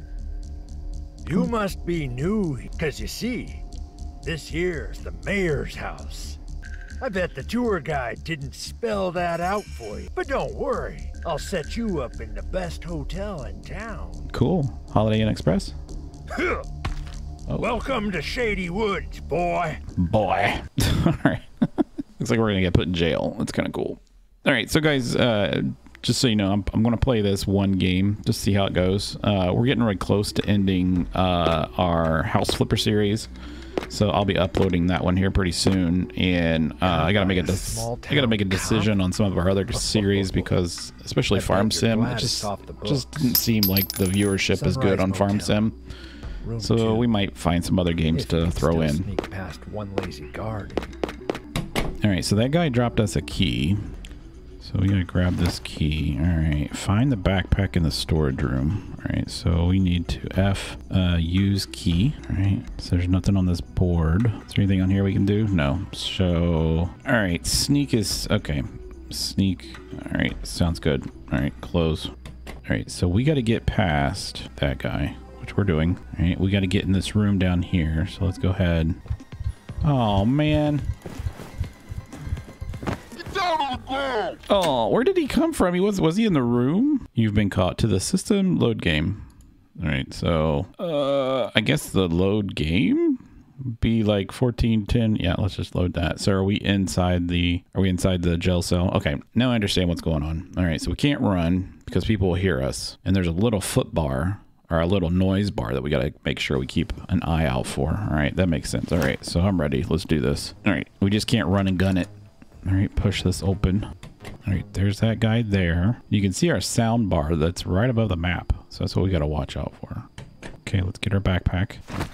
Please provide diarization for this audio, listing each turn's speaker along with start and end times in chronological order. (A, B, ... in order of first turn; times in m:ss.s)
0:01.2-0:03.6 A
0:04.2-0:06.4 A
0:07.0-0:14.2 A
0:14.3-0:15.8 B
0:16.3-0:16.7 A
0:17.6-0:19.8 A
0:19.9-0:33.3 B
0:33.9-0:45.8 B
0:36.8-0:38.9 A
0:39.7-0:40.5 A
0:41.3-0:43.4 A
0:44.5-0:45.6 A
0:46.4-0:47.1 A
0:46.6-0:49.1 B
0:48.1-0:50.9 A
0:52.0-0:53.8 B
0:54.6-1:12.1 B
1:12.6-1:19.0 B
1:19.8-1:20.9 B
1:24.3-1:29.2 B
1:29.8-1:52.1 B
1:52.6-1:53.9 B
1:54.4-2:00.1 B
2:00.6-2:01.8 B